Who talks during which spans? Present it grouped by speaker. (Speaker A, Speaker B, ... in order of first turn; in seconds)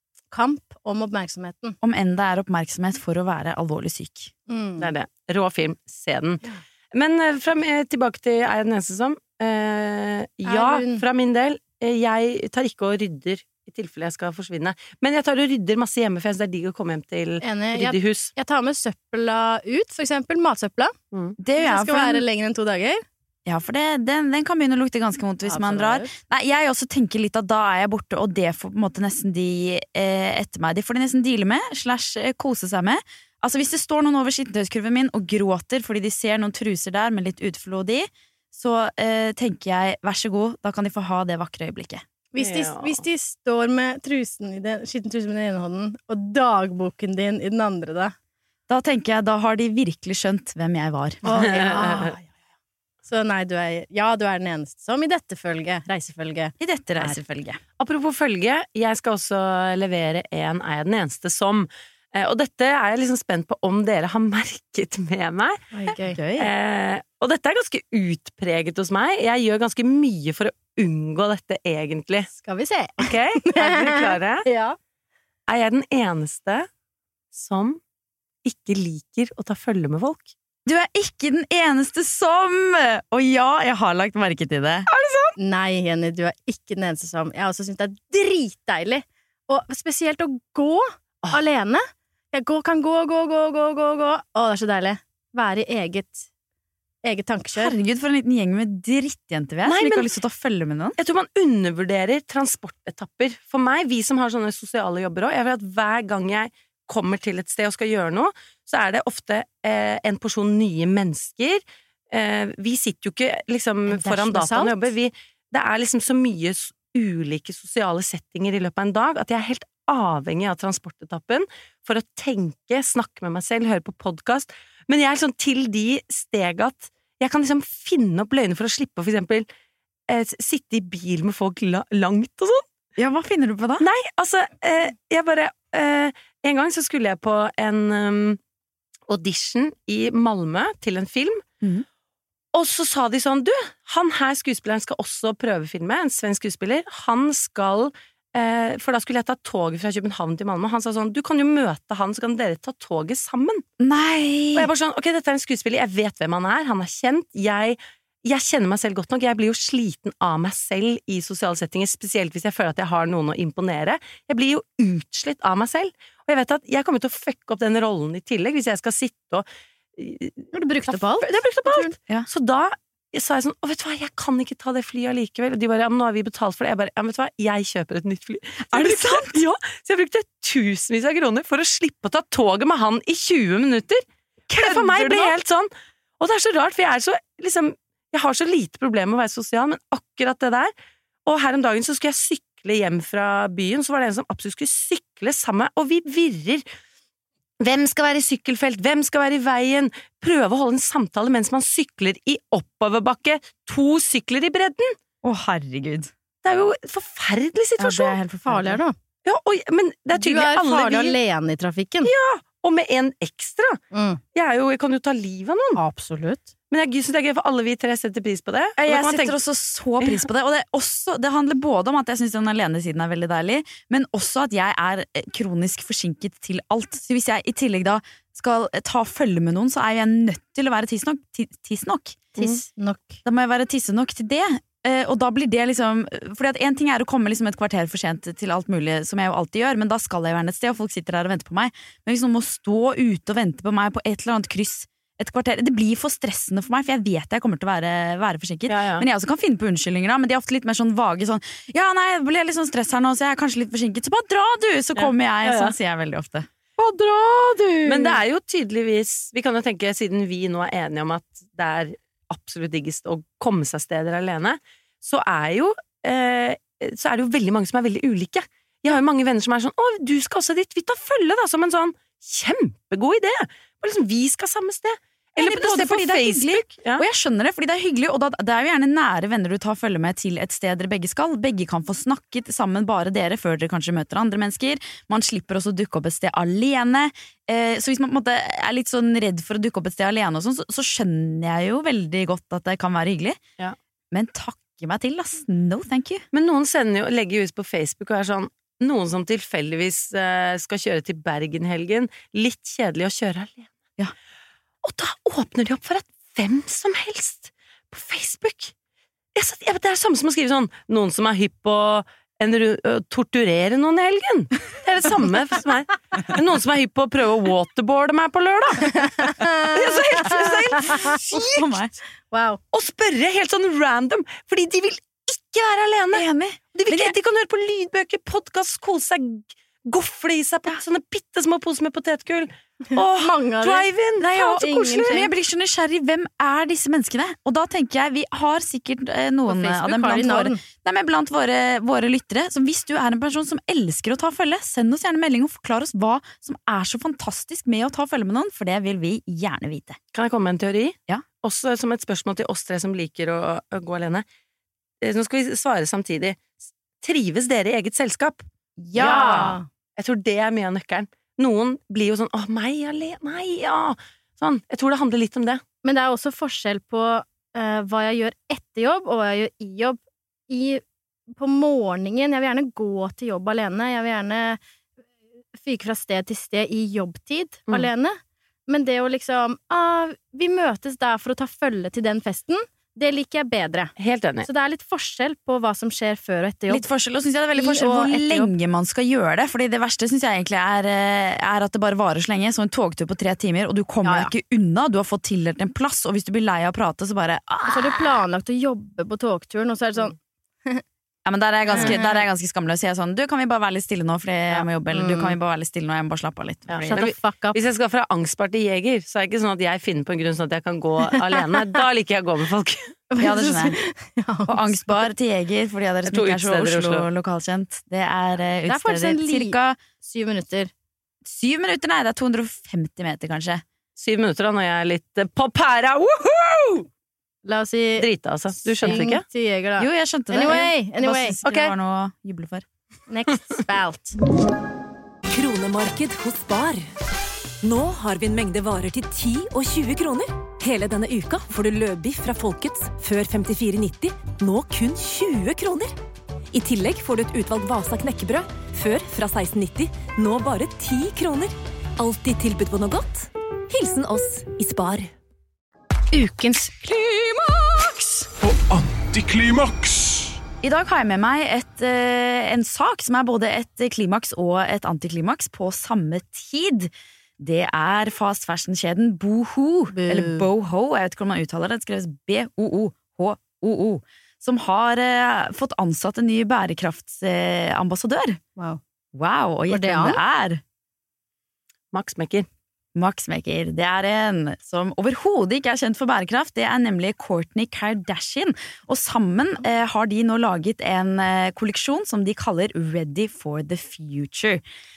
Speaker A: 0.3-1.8, 4.5-4.9, 10.5-11.0, 17.4-20.9, 21.6-23.0, 25.5-26.1, 42.3-48.1, 51.2-52.3, 53.0-57.2, 65.7-66.2, 72.3-74.8, 85.4-96.3, 97.0-97.7, 113.9-114.9, 170.5-171.9, 208.5-209.0, 210.1-212.1, 213.9-214.2, 215.8-216.5, 232.4-233.2, 256.8-258.2, 319.0-321.2, 322.3-322.6, 333.0-335.3, 339.5-340.6, 358.9-359.7, 365.8-374.6, 375.6-383.9, 384.4-386.8, 387.6-388.5, 394.0-394.3, 397.7-400.8, 401.7-402.1, 404.9-405.4, 406.9-407.6, 413.1-414.9, 418.7-420.7, 427.4-431.4, 433.1-434.2, 469.9-470.5, 479.7-480.2
Speaker B: 1.8-4.3, 21.4-22.2, 23.5-42.0, 48.7-51.8, 56.6-57.6, 66.1-66.5, 80.7-84.9, 97.5-101.0, 133.0-133.8, 153.8-154.7, 178.7-179.4, 184.5-185.3, 205.2-206.1, 207.8-208.8, 218.8-232.6, 233.2-256.5, 275.4-293.4, 294.1-296.2, 321.0-321.9, 326.1-327.1, 334.2-350.0, 358.8-359.6, 386.7-398.0, 401.2-407.0, 413.2-413.8, 414.5-419.8, 421.2-423.6, 429.8-432.6, 460.6-478.4, 479.1-480.6, 483.0-494.6
Speaker C: 4.8-18.3, 21.1-21.4, 42.4-43.0, 51.3-52.2, 57.8-65.7, 66.4-72.3, 73.0-74.5, 75.5-76.7, 77.3-77.8, 78.4-80.3, 84.9-85.3, 99.7-100.1, 101.0-129.5, 130.1-132.6, 133.8-138.4, 139.1-141.4, 142.5-153.6, 154.5-169.4, 170.0-184.0, 184.6-185.7, 186.2-190.7, 191.3-196.6, 197.6-205.0, 206.4-208.2, 209.2-211.2, 212.0-213.8, 214.3-215.8, 216.7-219.4, 248.7-249.1, 255.0-255.7, 257.8-277.1, 296.3-303.8, 304.8-308.7, 309.4-321.7, 322.7-335.2, 350.1-354.2, 355.0-365.6, 384.0-384.5, 406.7-412.9, 416.1-417.1, 424.0-426.9, 428.0-429.2, 431.4-431.7, 481.9-482.5
Speaker D: 435.3-436.9, 437.6-445.9, 446.5-455.1, 456.1-458.3
Speaker E: 458.4-460.4